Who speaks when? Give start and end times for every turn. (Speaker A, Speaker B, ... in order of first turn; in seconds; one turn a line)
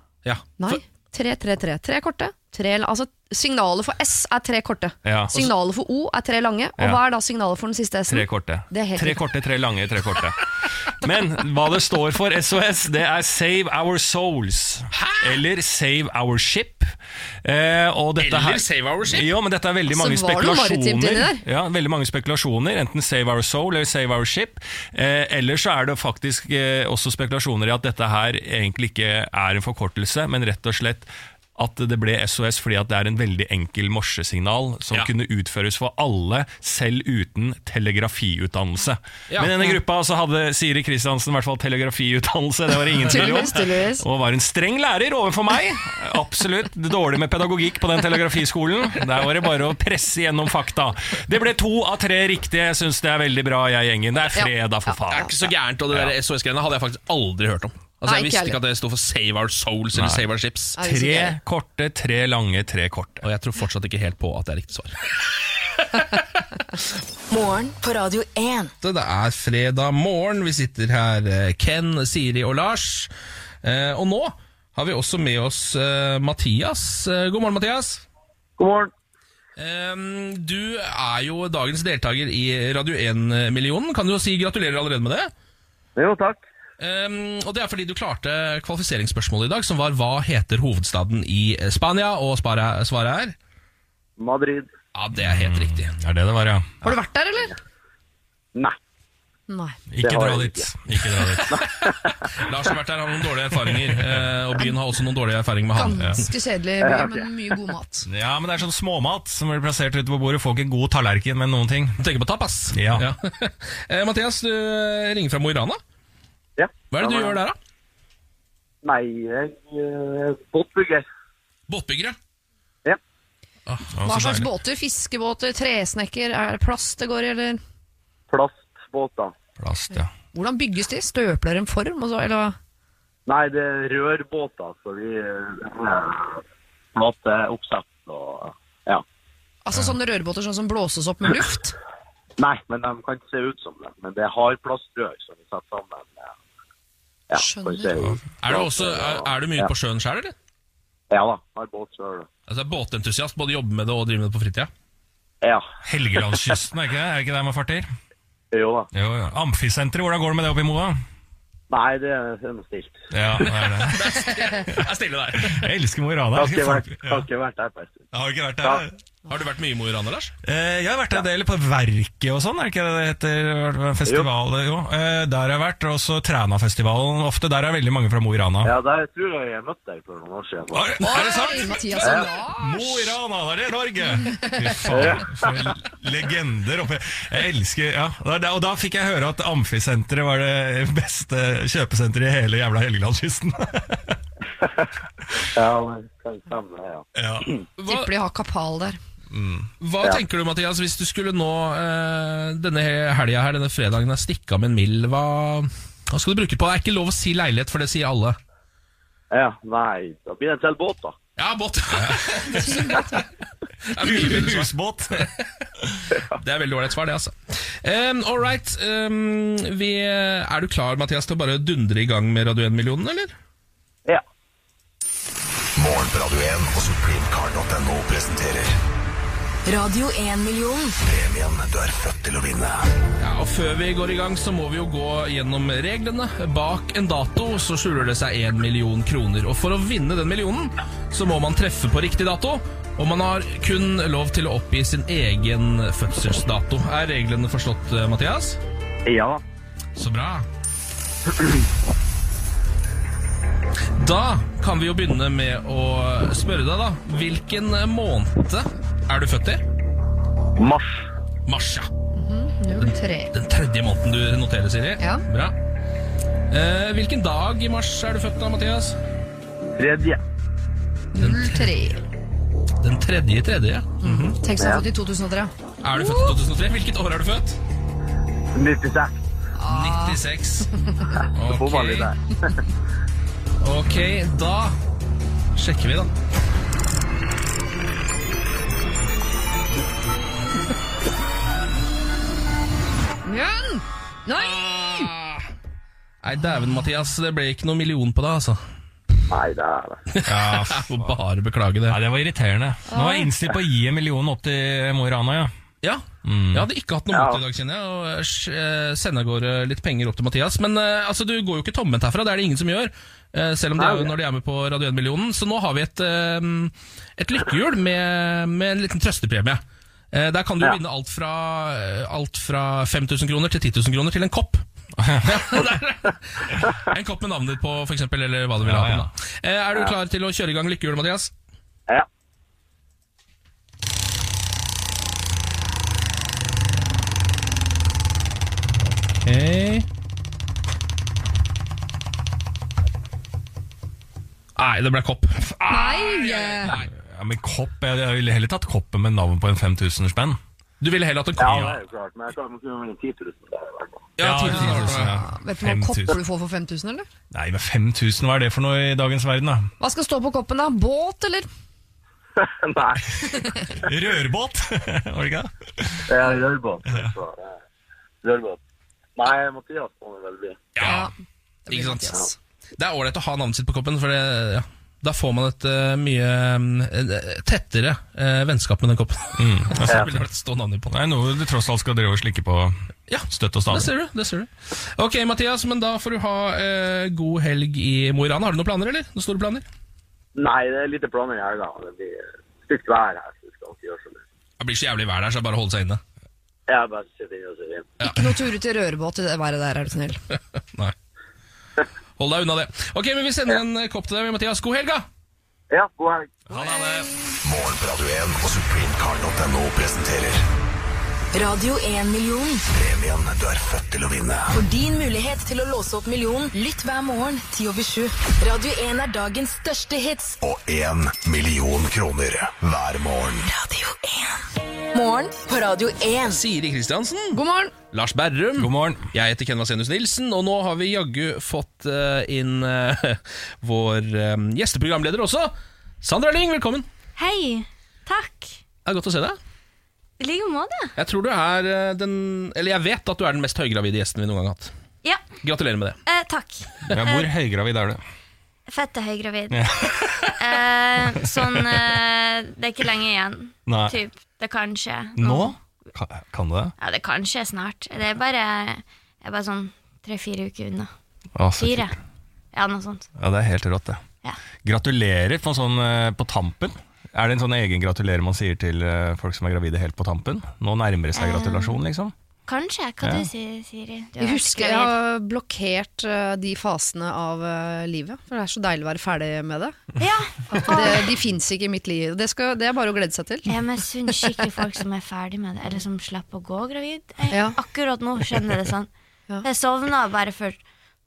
Speaker A: 0.2-0.8
Speaker B: 0.6-9.3
Speaker C: 5.0-5.3
Speaker C: 8.1-10.4
Speaker C: 10.9-16.9
Speaker A: 14.9-15.3
Speaker C: 17.4-56.1
Speaker A: 18.2-19.3
Speaker B: 19.9-21.4
Speaker A: 39.3-39.7
Speaker B: 43.1-44.0
Speaker B: 54.3-55.2
Speaker A: 55.1-60.8
Speaker B: 58.0-58.6
Speaker C: 59.9-60.3
Speaker B: 60.8-61.4
Speaker C: 60.8-63.2
Speaker A: 63.2-65.3
Speaker A: 65.9-66.2
Speaker D: 67.3-68.7
Speaker A: 68.8-73.1
Speaker A: 73.6-78.0
Speaker E: 78.6-78.9
Speaker A: 79.6-85.3
Speaker E: 86.0-86.4
Speaker A: 86.8-93.3
Speaker E: 94.2-94.7
Speaker A: 94.9-96.0
Speaker C: 95.2-96.9
Speaker B: 96.8-97.5
Speaker B: 99.5-99.8
Speaker C: 99.9-101.5
Speaker E: 100.0-100.7
Speaker A: 101.5-106.2
Speaker E: 101.5-101.9
Speaker B: 105.7-108.1
Speaker E: 106.8-107.3
Speaker C: 108.0-112.0
Speaker A: 112.0-115.8
Speaker C: 112.7-113.1
Speaker E: 116.6-117.4
Speaker A: 116.9-117.6
Speaker E: 118.8-121.0
Speaker A: 121.7-122.2
Speaker C: 123.9-124.5
Speaker B: 124.0-127.6
Speaker E: 128.3-129.3
Speaker C: 129.6-130.1
Speaker B: 130.3-132.6
Speaker E: 133.3-136.4
Speaker E: 136.9-139.0
Speaker B: 139.6-141.7
Speaker E: 142.4-146.3
Speaker E: 147.3-149.7
Speaker B: 147.3-148.0
Speaker A: 148.4-150.3
Speaker E: 151.1-152.3
Speaker A: 152.5-154.7
Speaker C: 155.8-157.9
Speaker E: 158.5-158.9
Speaker C: 158.9-161.0
Speaker E: 161.7-163.0
Speaker C: 163.1-164.2
Speaker A: 163.4-165.6
Speaker C: 165.4-167.2
Speaker E: 166.3-168.1
Speaker C: 168.1-168.9
Speaker A: 169.3-170.3
Speaker C: 170.4-178.7
Speaker E: 178.6-181.0
Speaker C: 180.7-194.2
Speaker B: 181.0-183.1
Speaker E: 182.0-182.3
Speaker E: 184.9-185.3
Speaker A: 185.2-185.7
Speaker E: 195.5-197.1
Speaker C: 197.1-197.5
Speaker A: 197.8-198.1
Speaker B: 197.8-199.0
Speaker C: 199.3-199.7
Speaker A: 199.8-208.4
Speaker E: 209.3-211.2
Speaker A: 211.4-212.9
Speaker C: 212.0-212.6
Speaker B: 212.5-213.2
Speaker A: 213.9-215.4
Speaker C: 214.0-215.3
Speaker A: 216.3-223.3
Speaker F: 225.8-228.8
Speaker D: 229.7-231.0
Speaker F: 231.0-232.9
Speaker A: 233.2-248.6
Speaker E: 249.1-249.4
Speaker A: 249.9-250.5
Speaker A: 254.0-259.6
Speaker E: 260.6-261.0
Speaker A: 261.4-261.9
Speaker B: 262.1-263.3
Speaker A: 262.8-265.6
Speaker B: 265.0-265.2
Speaker A: 266.5-269.0
Speaker E: 269.8-270.2
Speaker B: 271.1-272.0
Speaker A: 271.2-271.7
Speaker A: 272.8-274.4
Speaker B: 274.0-276.4
Speaker E: 274.6-274.8
Speaker A: 275.8-277.6
Speaker E: 278.5-279.2
Speaker B: 279.6-280.2
Speaker A: 279.7-280.7
Speaker E: 281.2-282.5
Speaker A: 281.3-282.1
Speaker A: 283.6-284.8
Speaker A: 285.6-286.1
Speaker B: 293.2-294.7
Speaker A: 294.4-295.4
Speaker A: 296.2-298.6
Speaker E: 299.3-300.0
Speaker A: 300.1-302.0
Speaker C: 300.2-301.1
Speaker C: 301.9-305.5
Speaker B: 302.9-303.3
Speaker A: 305.8-324.6
Speaker C: 306.2-306.7
Speaker E: 307.1-307.4
Speaker E: 313.8-314.1
Speaker C: 325.0-325.4
Speaker A: 325.2-331.3
Speaker C: 328.6-329.1
Speaker A: 339.2-339.9
Speaker A: 344.6-346.9
Speaker C: 345.6-350.4
Speaker B: 345.7-346.7
Speaker A: 350.8-351.7
Speaker E: 351.4-354.1
Speaker C: 351.5-351.7
Speaker A: 354.2-355.1
Speaker C: 354.2-356.2
Speaker B: 354.7-357.1
Speaker C: 357.3-359.7
Speaker B: 359.8-361.5
Speaker E: 362.4-363.5
Speaker C: 363.8-366.1
Speaker E: 366.1-367.5
Speaker E: 368.2-368.6
Speaker E: 369.1-370.7
Speaker A: 370.7-371.1
Speaker B: 370.8-371.1
Speaker B: 371.7-372.3
Speaker A: 371.7-372.2
Speaker A: 372.8-380.9
Speaker C: 379.4-380.1
Speaker C: 380.9-382.8
Speaker A: 383.1-389.6
Speaker C: 383.3-383.9
Speaker E: 390.3-394.2
Speaker A: 394.6-396.0
Speaker E: 396.7-397.9
Speaker A: 398.0-398.2
Speaker B: 398.0-400.2
Speaker A: 402.2-405.1
Speaker E: 405.7-406.4
Speaker C: 406.5-407.1
Speaker F: 407.4-410.4
Speaker D: 411.3-412.6
Speaker F: 412.7-414.5
Speaker D: 414.5-420.4
Speaker F: 420.4-423.5
Speaker D: 423.4-426.4
Speaker A: 426.3-427.4
Speaker B: 427.3-427.7
Speaker A: 427.9-436.9
Speaker C: 428.6-429.1
Speaker G: 437.2-438.6
Speaker A: 438.9-439.4
Speaker G: 440.2-440.9
Speaker A: 440.9-444.7
Speaker A: 445.4-446.0
Speaker G: 446.1-447.3
Speaker C: 446.9-448.0
Speaker G: 448.7-449.7
Speaker C: 449.5-450.1
Speaker G: 450.4-455.5
Speaker C: 451.2-451.8
Speaker C: 453.7-453.9
Speaker C: 455.2-456.7
Speaker G: 456.8-460.9
Speaker C: 461.4-461.9
Speaker G: 461.6-461.9
Speaker G: 462.5-463.1
Speaker C: 463.2-464.0
Speaker C: 464.6-472.1
Speaker G: 471.1-471.8
Speaker G: 472.5-474.9
Speaker C: 473.0-473.3
Speaker B: 474.2-479.8
Speaker G: 480.0-481.1
Speaker B: 480.5-483.5
Speaker G: 483.4-488.9
Speaker B: 487.3-487.6
Speaker G: 489.4-490.6